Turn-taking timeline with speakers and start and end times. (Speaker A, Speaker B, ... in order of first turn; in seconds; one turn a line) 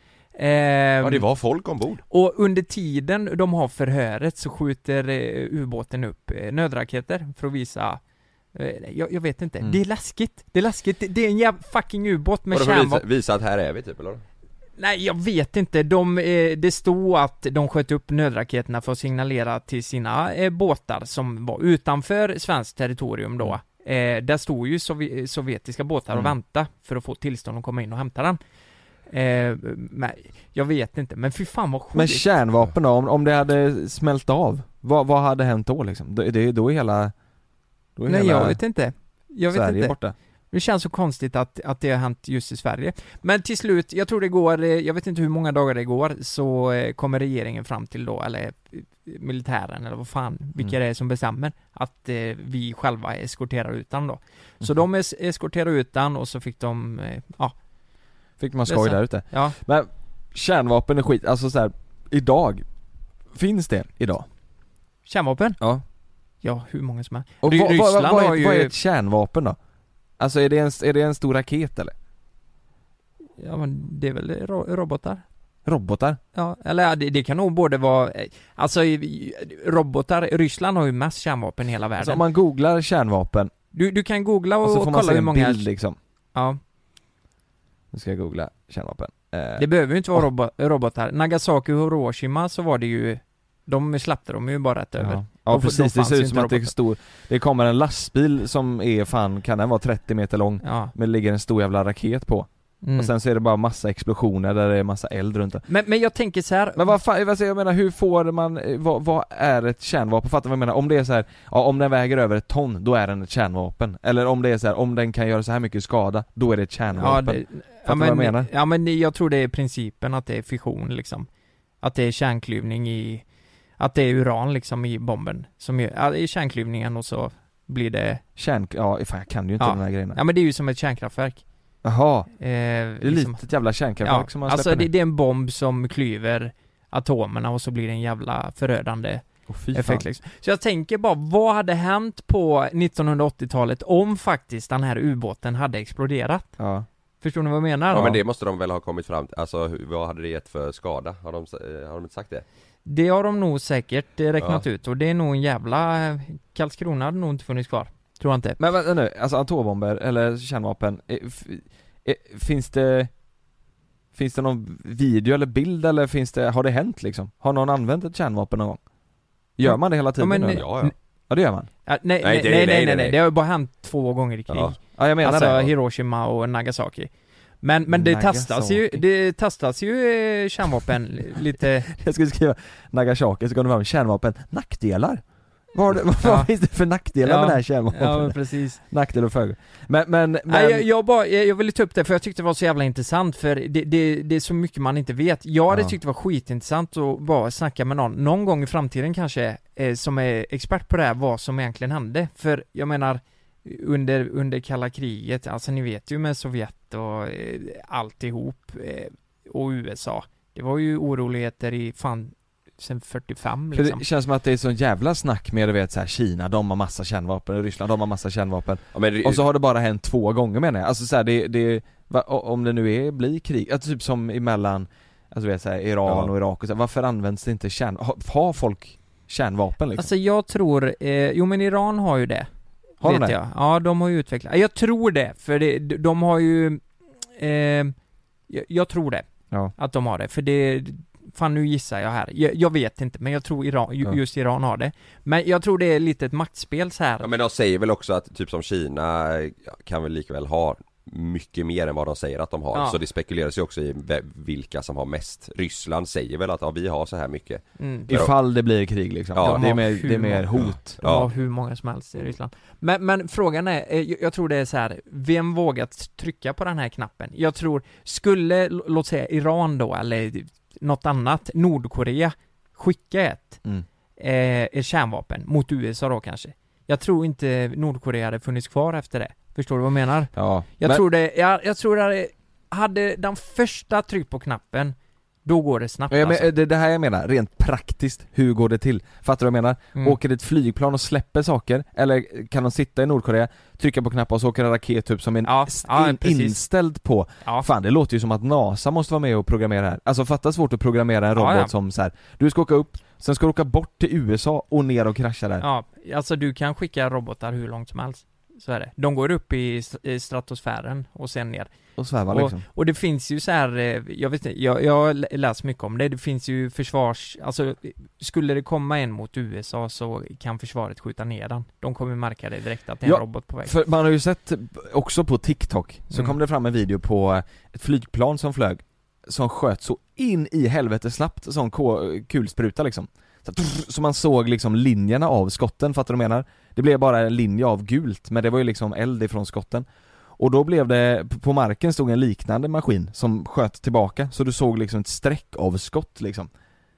Speaker A: 0.3-1.2
Speaker B: 1.0-2.0
Speaker A: 2.1-8.0
Speaker A: 8.5-13.0
Speaker B: 12.5-14.2
Speaker A: 14.8-28.4
Speaker A: 29.1-32.3
Speaker C: 31.9-37.1
Speaker C: 38.0-38.6
Speaker A: 38.1-40.0
Speaker C: 39.5-40.1
Speaker A: 40.5-57.5
Speaker C: 58.4-62.6
Speaker A: 58.6-59.6
Speaker C: 63.3-64.3
Speaker A: 65.0-65.6
Speaker A: 66.4-68.7
Speaker C: 67.4-69.6
Speaker C: 70.2-71.9
Speaker A: 73.4-75.2
Speaker C: 75.7-76.2
Speaker A: 76.3-82.2
Speaker C: 82.0-83.5
Speaker A: 83.7-85.7
Speaker C: 84.6-86.0
Speaker C: 87.9-90.2
Speaker A: 89.6-96.7
Speaker C: 95.0-105.6
Speaker A: 100.6-100.9
Speaker A: 102.8-103.1
Speaker A: 105.7-107.0
Speaker C: 106.8-118.5
Speaker A: 117.0-121.3
Speaker A: 121.8-123.2
Speaker A: 123.8-128.2
Speaker C: 128.4-130.2
Speaker A: 129.6-131.4
Speaker C: 131.8-132.3
Speaker A: 132.4-133.4
Speaker C: 133.0-134.9
Speaker A: 134.0-146.6
Speaker C: 139.5-140.0
Speaker C: 146.6-146.8
Speaker A: 147.2-148.2
Speaker B: 147.9-152.4
Speaker A: 152.8-158.6
Speaker C: 158.6-163.1
Speaker C: 164.1-168.8
Speaker C: 169.6-170.7
Speaker A: 169.6-170.9
Speaker B: 170.5-170.9
Speaker C: 171.3-171.7
Speaker A: 171.8-177.1
Speaker B: 172.2-173.2
Speaker B: 174.5-174.8
Speaker C: 174.9-175.7
Speaker A: 177.6-181.9
Speaker C: 177.9-179.0
Speaker C: 181.9-190.9
Speaker A: 186.2-186.5
Speaker A: 187.2-188.8
Speaker A: 190.5-214.0
Speaker C: 195.7-195.9
Speaker C: 213.7-230.1
Speaker B: 218.9-219.4
Speaker B: 226.1-226.3
Speaker A: 229.9-232.5
Speaker A: 233.0-236.8
Speaker C: 233.0-233.3
Speaker A: 237.3-237.9
Speaker A: 238.5-247.3
Speaker B: 247.2-258.3
Speaker A: 257.8-258.1
Speaker C: 258.1-261.0
Speaker B: 259.3-259.6
Speaker A: 259.4-273.6
Speaker B: 260.6-261.3
Speaker A: 274.2-286.5
Speaker C: 280.3-281.0
Speaker C: 286.1-305.6
Speaker A: 295.4-296.6
Speaker A: 297.4-297.7
Speaker A: 301.4-301.7
Speaker A: 305.6-311.7
Speaker C: 312.0-312.6
Speaker A: 312.3-323.8
Speaker C: 323.0-339.9
Speaker A: 326.1-326.4
Speaker C: 340.4-346.5